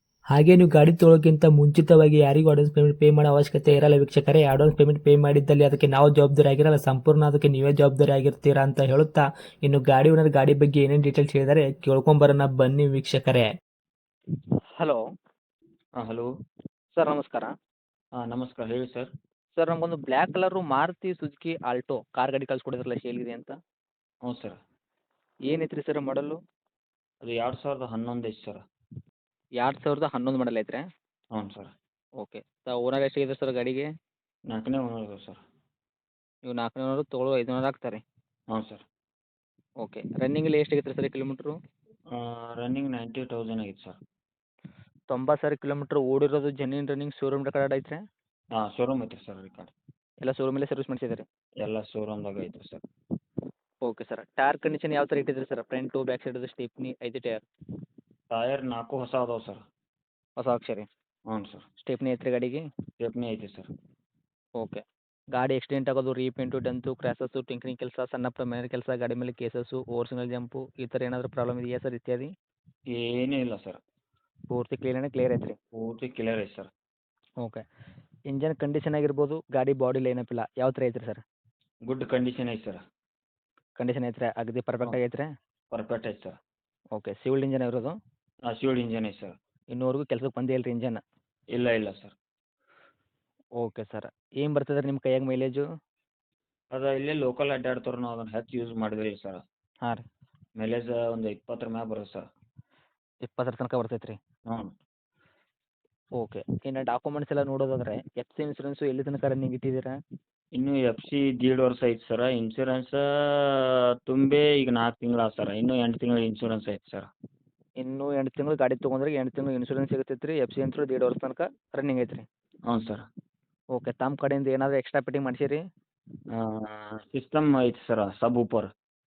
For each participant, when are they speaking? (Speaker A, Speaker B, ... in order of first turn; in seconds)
Speaker A: 0.3-13.5
Speaker B: 16.0-16.3, 18.2-19.1, 24.3-24.6, 27.2-28.6, 31.4-31.7, 34.5-35.4, 38.5-38.8, 42.1-44.0, 48.5-49.7, 51.6-52.8, 58.3-59.6, 61.3-61.7, 63.0-63.7, 72.9-73.8, 75.7-76.7, 81.9-82.8, 85.7-86.4, 88.5-89.4, 91.5-92.2, 96.7-99.4, 100.6-102.3, 110.5-117.1, 122.7-123.1, 126.3-128.7
Speaker C: 16.9-17.5, 19.6-23.6, 25.5-26.4, 29.6-30.8, 32.2-33.9, 36.5-38.0, 39.8-41.5, 45.1-48.0, 50.2-51.2, 53.8-57.4, 60.4-60.9, 61.8-62.6, 65.3-72.3, 74.5-75.6, 78.3-81.2, 83.8-85.3, 87.0-88.0, 89.7-91.0, 93.6-95.6, 103.3-104.2, 106.2-110.0, 117.8-122.3, 123.8-125.6